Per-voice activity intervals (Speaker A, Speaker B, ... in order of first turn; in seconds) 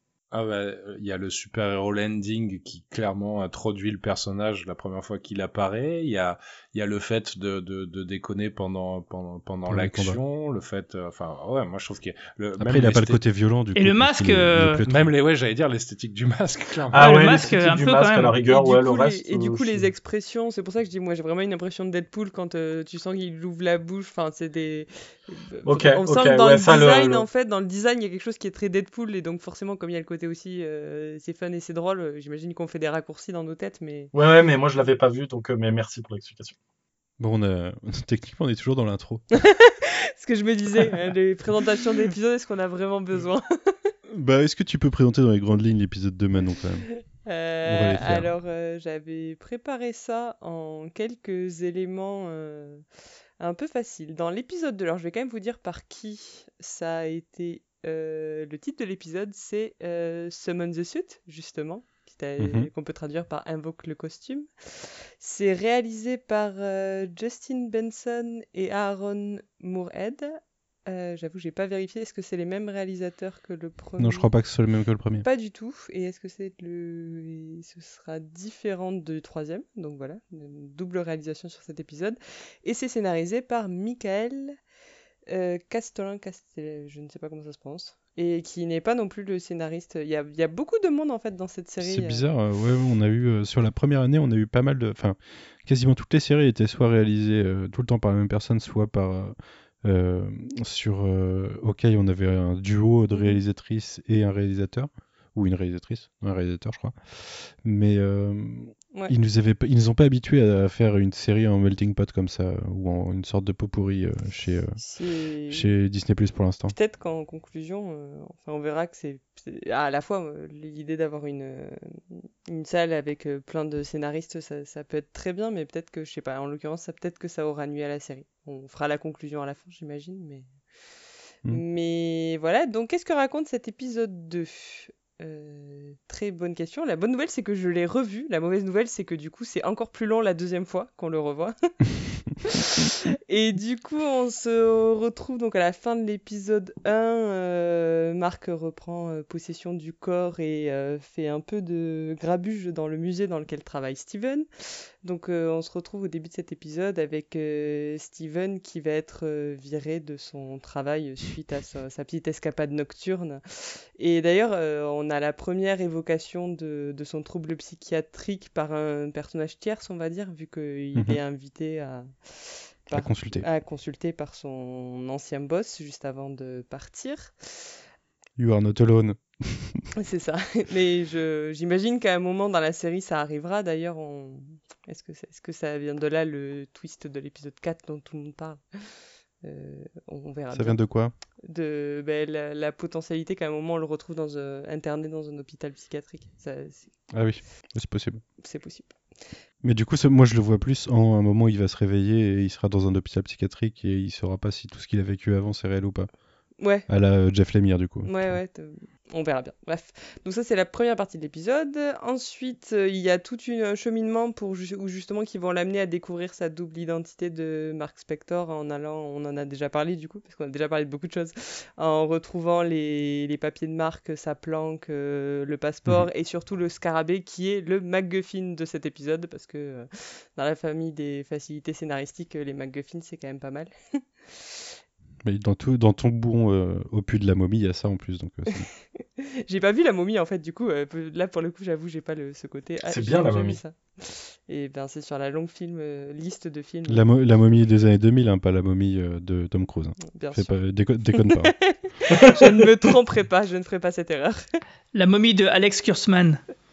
Speaker A: 0.3-13.2, 14.8-17.5
Speaker B: 9.7-10.2, 12.6-15.1, 37.2-39.2, 44.1-46.9, 47.6-48.3, 62.4-62.7, 74.0-75.3, 91.8-114.8, 115.5-116.8, 172.9-173.5, 178.4-179.9, 190.5-191.1, 197.1-198.2, 199.6-206.1, 206.9-208.4, 235.2-238.7, 246.9-251.6
Speaker C: 13.8-14.8, 17.0-18.4, 254.9-256.4
Speaker D: 16.9-19.9, 25.7-27.3, 34.1-36.5, 242.9-243.6, 252.1-252.6
Speaker E: 18.4-34.1, 39.3-43.9, 46.9-52.9, 53.4-74.3, 75.2-84.6, 85.3-92.2, 103.1-103.4, 114.8-115.7, 116.7-130.5, 131.4-141.8, 142.4-154.5, 155.0-177.7, 179.9-190.8, 191.5-197.1, 198.4-199.0, 206.6-206.9, 208.0-234.4, 238.6-247.1, 250.0-250.5, 251.2-254.5